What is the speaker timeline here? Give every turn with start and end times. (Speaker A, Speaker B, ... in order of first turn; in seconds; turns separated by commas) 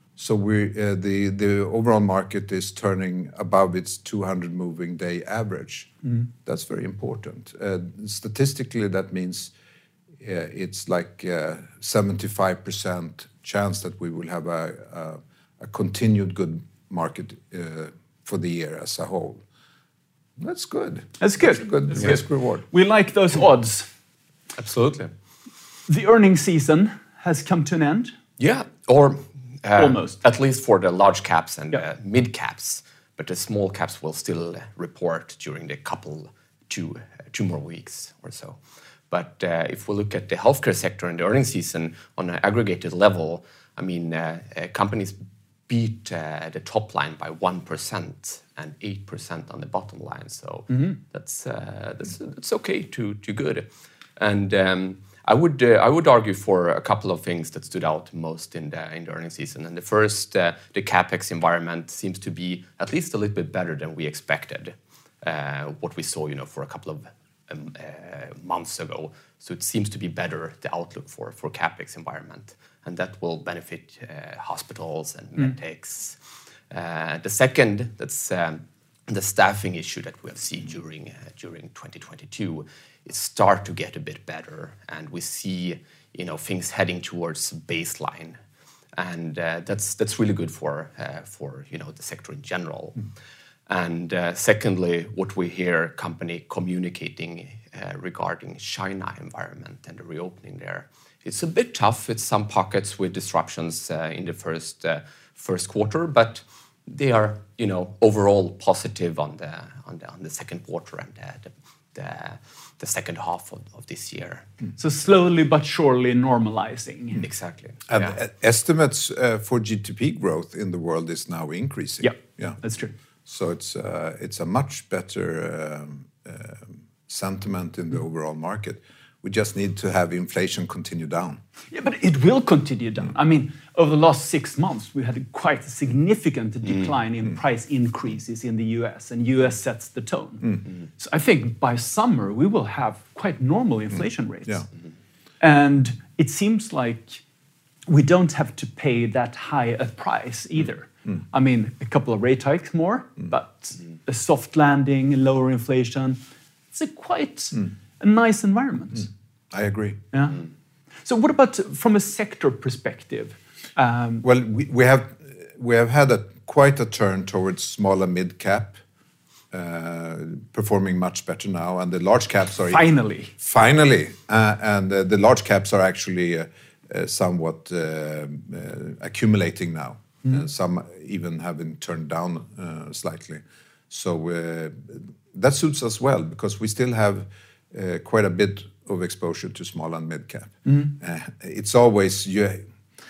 Speaker A: 0.2-5.9, Speaker A: 6.4-9.5, Speaker A: 10.2-19.4, Speaker A: 20.4-22.6, Speaker B: 21.2-23.9, Speaker C: 24.6-25.1, Speaker B: 25.9-28.1, Speaker C: 28.4-38.6, Speaker B: 29.8-30.2, Speaker C: 39.1-45.2, Speaker C: 45.7-76.2, Speaker C: 76.7-88.4, Speaker C: 89.0-93.0, Speaker C: 93.7-114.5, Speaker B: 114.8-117.2, Speaker C: 117.2-118.2, Speaker A: 117.9-122.6, Speaker B: 122.0-122.9, Speaker A: 123.2-131.4, Speaker B: 131.7-144.7, Speaker B: 145.4-147.2, Speaker B: 147.9-156.2, Speaker B: 156.7-159.1, Speaker A: 159.5-160.0, Speaker B: 160.1-160.4, Speaker B: 161.0-164.2, Speaker A: 164.2-168.8, Speaker A: 169.5-172.8, Speaker B: 172.7-173.3, Speaker A: 173.4-192.6